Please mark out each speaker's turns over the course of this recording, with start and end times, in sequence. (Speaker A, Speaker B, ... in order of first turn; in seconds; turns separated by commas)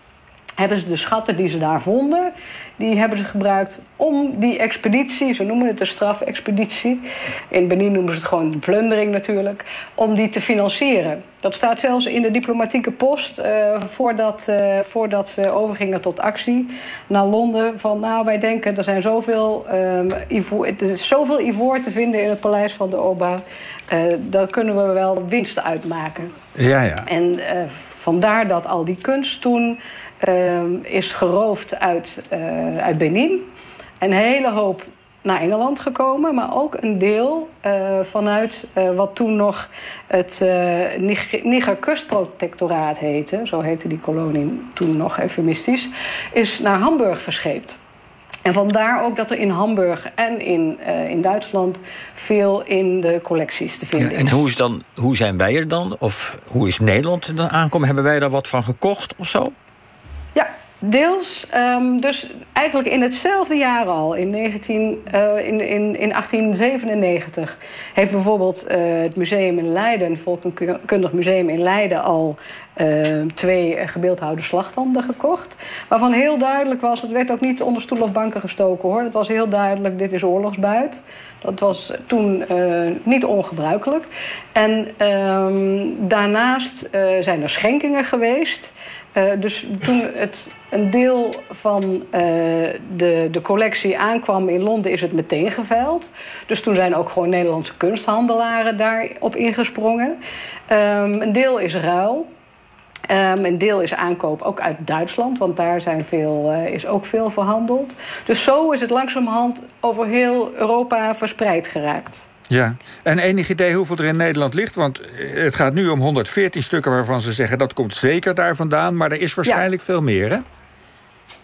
Speaker A: 0.6-26.4, Speaker B: 26.5-27.1, Speaker A: 27.1-33.4, Speaker A: 34.0-47.8, Speaker A: 48.5-54.4, Speaker C: 54.0-59.5, Speaker A: 60.3-100.2, Speaker A: 100.7-102.3, Speaker A: 103.1-112.2, Speaker B: 112.5-120.4